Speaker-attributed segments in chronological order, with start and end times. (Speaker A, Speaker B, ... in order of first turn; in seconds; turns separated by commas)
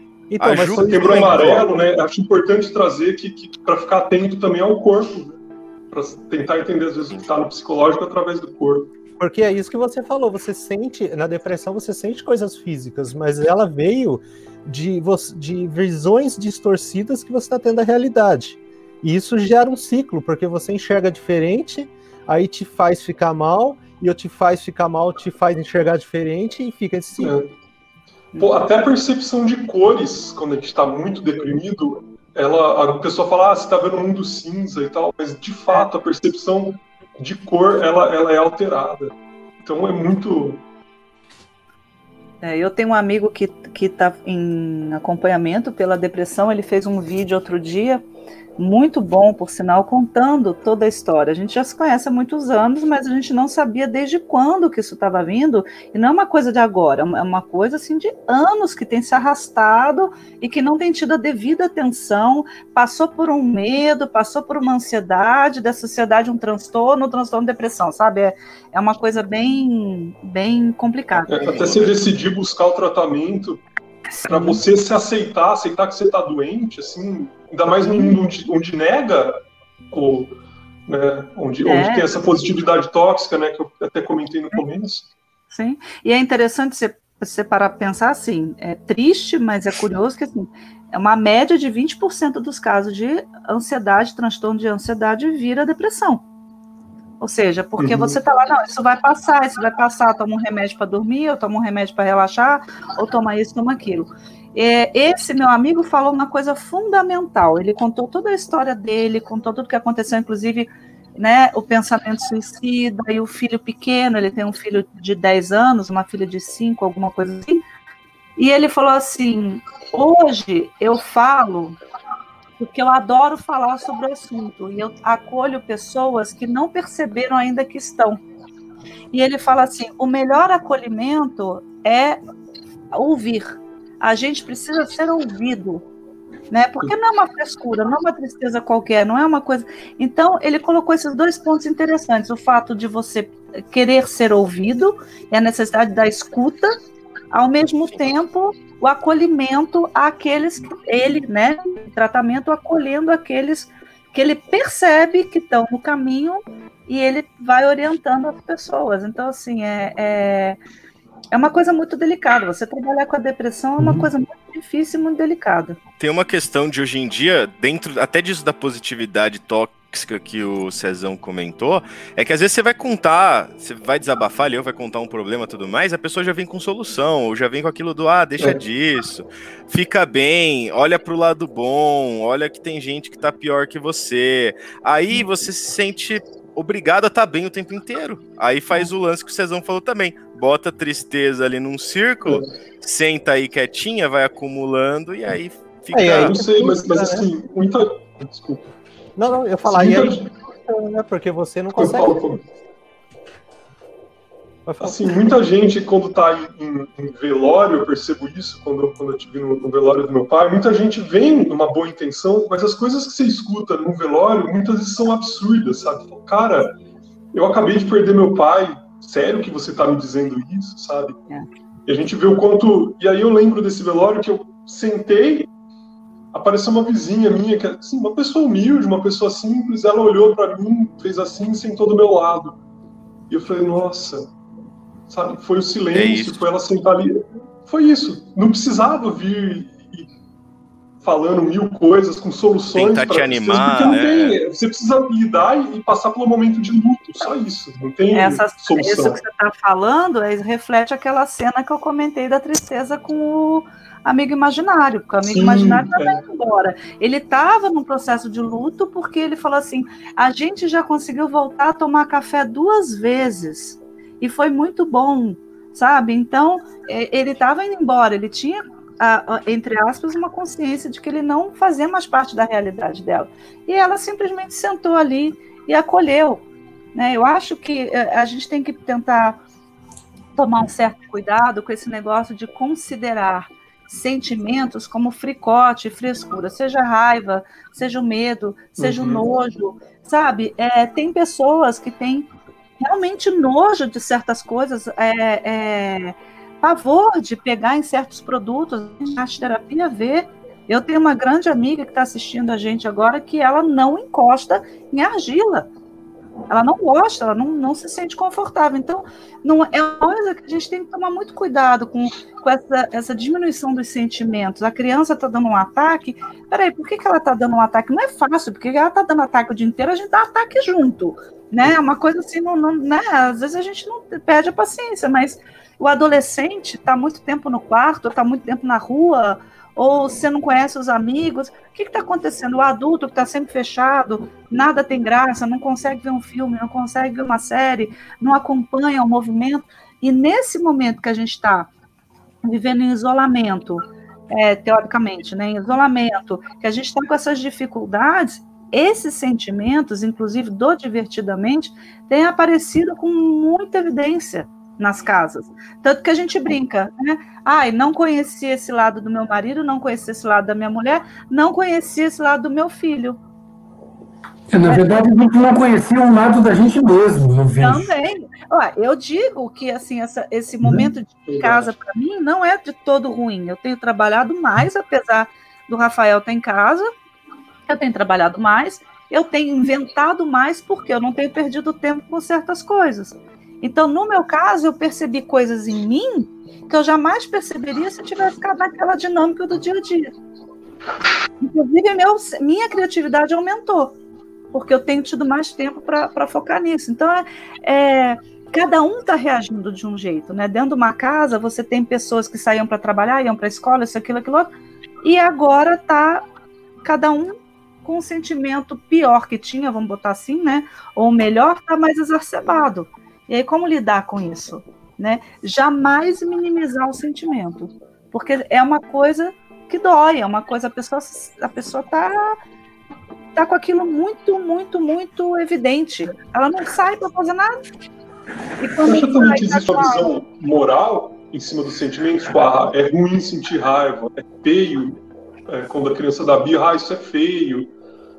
Speaker A: 0.3-1.7, Speaker B: 0.4-1.6, Speaker C: 0.7-5.4, Speaker C: 5.9-8.9, Speaker A: 9.2-27.4, Speaker C: 27.2-27.5, Speaker C: 28.3-40.6, Speaker D: 42.4-48.0, Speaker D: 48.6-71.4, Speaker B: 71.1-72.0, Speaker C: 71.3-73.6, Speaker D: 74.1-74.6, Speaker C: 74.3-79.4, Speaker D: 77.8-78.2, Speaker C: 79.9-85.1, Speaker D: 81.6-82.2, Speaker D: 85.5-96.2, Speaker D: 97.2-117.6, Speaker C: 97.8-98.2, Speaker D: 118.4-121.8, Speaker D: 122.6-128.2, Speaker D: 129.1-132.2, Speaker D: 132.9-135.8, Speaker D: 136.5-146.8, Speaker D: 147.3-160.6, Speaker D: 161.3-165.8, Speaker E: 163.8-164.1, Speaker B: 166.0-196.4, Speaker A: 195.9-197.3, Speaker C: 196.1-198.7, Speaker A: 199.2-202.2, Speaker C: 199.7-200.3, Speaker C: 201.8-202.4, Speaker A: 204.7-205.1, Speaker C: 204.8-216.7, Speaker C: 217.3-221.2, Speaker C: 221.8-225.5, Speaker C: 226.3-232.6, Speaker C: 233.3-234.3, Speaker C: 235.1-240.1, Speaker B: 235.9-236.4, Speaker C: 241.0-249.2, Speaker B: 242.7-244.4, Speaker D: 248.1-279.4, Speaker C: 255.2-256.2, Speaker D: 280.4-305.7, Speaker C: 288.8-289.2, Speaker D: 306.5-341.7, Speaker D: 342.4-363.2, Speaker E: 364.5-367.9, Speaker D: 367.6-376.9, Speaker C: 371.3-371.7, Speaker D: 377.7-390.1, Speaker D: 391.4-393.9, Speaker D: 394.5-404.5, Speaker D: 405.0-406.2, Speaker D: 406.8-422.4, Speaker D: 423.3-427.6, Speaker D: 428.6-430.1, Speaker C: 428.8-437.7